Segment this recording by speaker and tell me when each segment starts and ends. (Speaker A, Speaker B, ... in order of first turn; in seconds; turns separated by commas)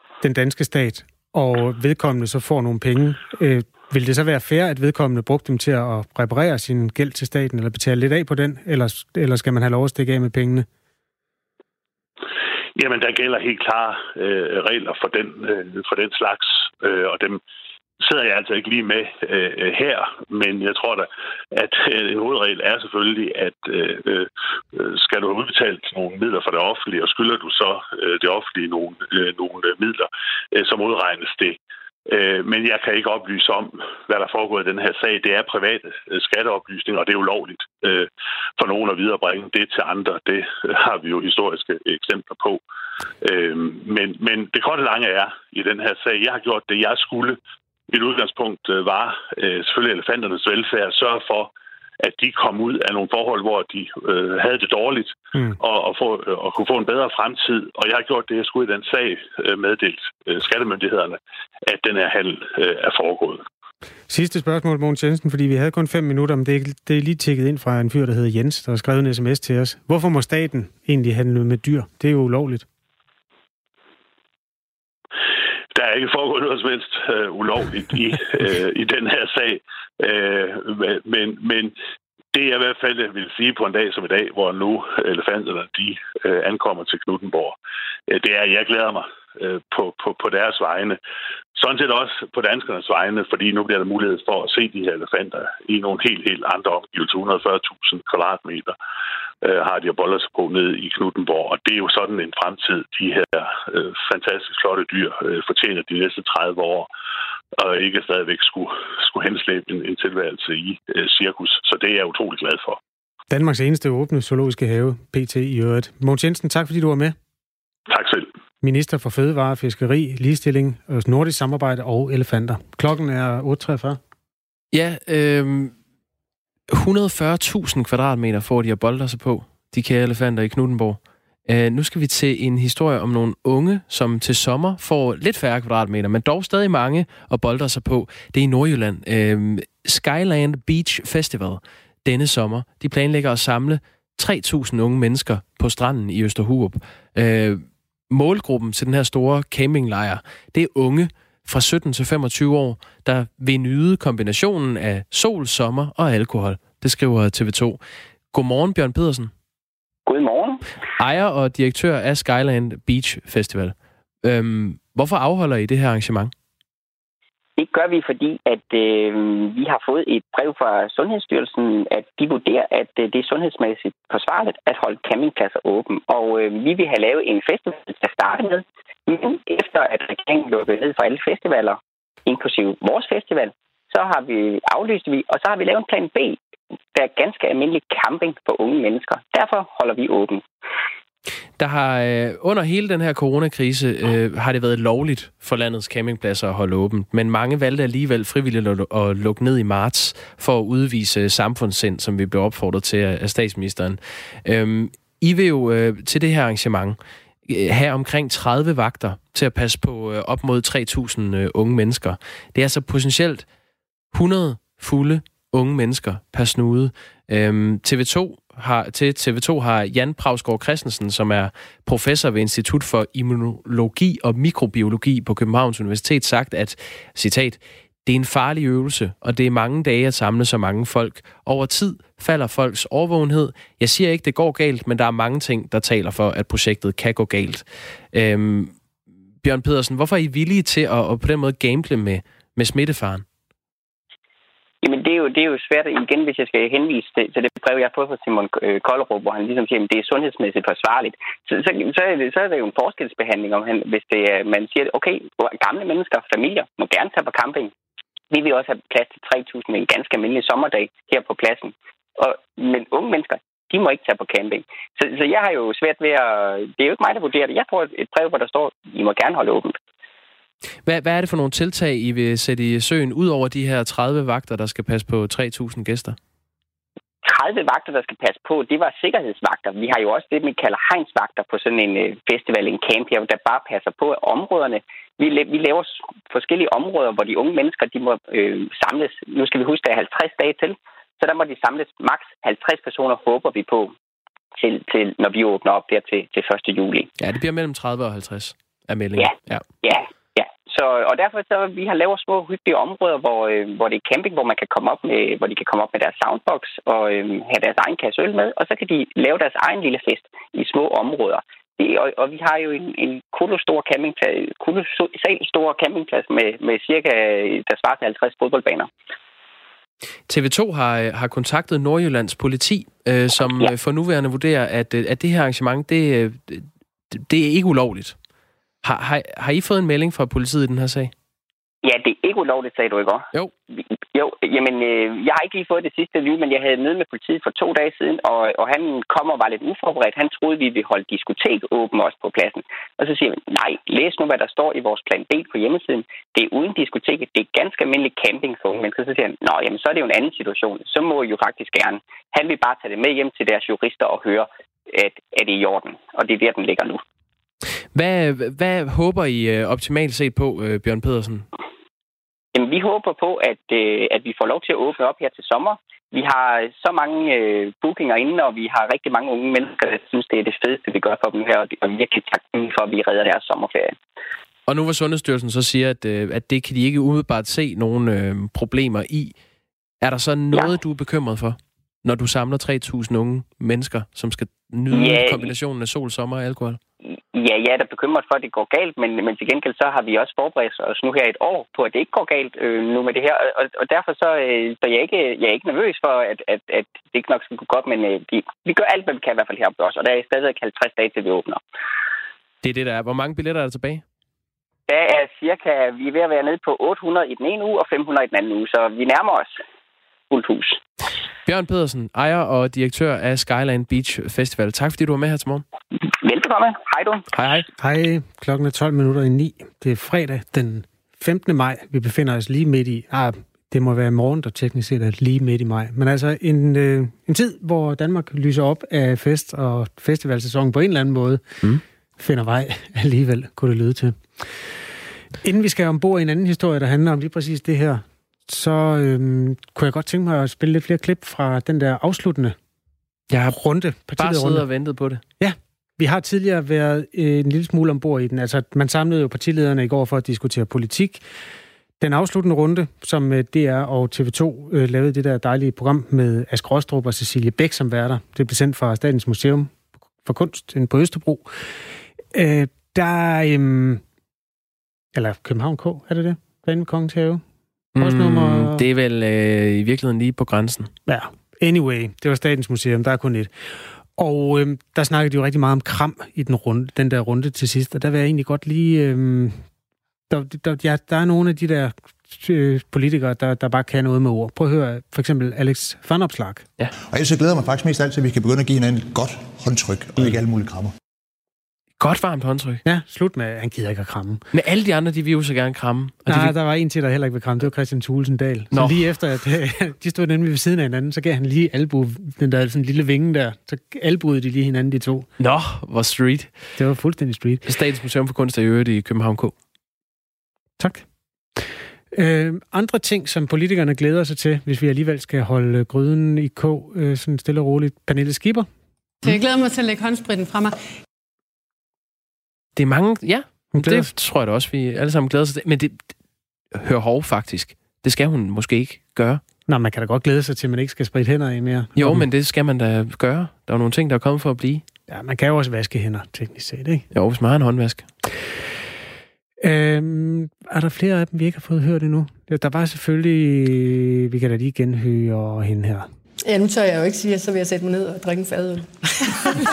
Speaker A: 0.2-10.7, Speaker B: 12.8-17.4, Speaker B: 18.0-42.6, Speaker B: 43.2-47.4, Speaker B: 47.9-63.4, Speaker A: 55.3-55.6, Speaker A: 64.1-72.7, Speaker B: 75.8-81.8, Speaker B: 82.3-87.6, Speaker B: 88.1-91.0, Speaker B: 91.6-98.8, Speaker B: 99.4-106.9, Speaker B: 107.6-112.8, Speaker A: 113.3-117.2, Speaker B: 117.9-118.3, Speaker A: 118.6-124.0, Speaker C: 124.7-125.7, Speaker C: 126.7-157.8, Speaker C: 158.3-159.3, Speaker D: 160.1-160.6, Speaker C: 161.0-166.3, Speaker D: 167.6-186.4, Speaker D: 186.9-190.4, Speaker C: 191.6-213.5, Speaker C: 214.1-238.8, Speaker C: 239.4-243.2, Speaker D: 244.8-257.7, Speaker D: 258.3-269.8, Speaker C: 270.9-276.2, Speaker D: 277.2-293.9, Speaker D: 294.6-297.1, Speaker C: 297.2-299.6, Speaker D: 299.2-318.9, Speaker C: 320.3-328.2, Speaker D: 323.4-323.7, Speaker C: 328.8-331.1, Speaker D: 331.8-357.0, Speaker C: 357.9-361.5, Speaker D: 362.6-373.9, Speaker C: 374.7-379.4, Speaker C: 380.0-386.8, Speaker D: 384.9-385.5, Speaker D: 387.1-401.6, Speaker C: 402.6-404.0, Speaker D: 404.9-409.6, Speaker D: 410.3-410.8, Speaker C: 411.5-415.6, Speaker D: 416.1-417.3, Speaker C: 417.3-417.7, Speaker A: 417.8-431.4, Speaker A: 432.2-434.6, Speaker A: 435.4-442.6, Speaker C: 443.3-443.6, Speaker A: 443.5-444.6, Speaker C: 444.2-445.2, Speaker A: 445.4-451.2, Speaker A: 452.0-461.7, Speaker A: 462.3-464.0, Speaker A: 465.1-467.4, Speaker C: 468.0-470.9, Speaker A: 468.0-468.8, Speaker A: 471.1-473.5, Speaker A: 474.2-479.6, Speaker A: 480.3-486.6, Speaker E: 487.1-490.9, Speaker C: 492.0-492.8, Speaker A: 492.9-494.4, Speaker C: 494.5-496.6, Speaker A: 496.3-505.3, Speaker C: 498.7-499.1, Speaker C: 505.4-506.7, Speaker A: 506.8-507.6, Speaker C: 507.6-509.5, Speaker A: 510.8-511.1, Speaker A: 512.1-518.7, Speaker F: 519.2-520.8, Speaker C: 522.8-526.0, Speaker A: 523.8-524.1, Speaker C: 526.8-529.4, Speaker A: 529.7-532.3, Speaker C: 532.0-534.8, Speaker A: 535.1-537.0, Speaker C: 537.1-538.1, Speaker A: 539.6-546.1, Speaker F: 546.5-549.1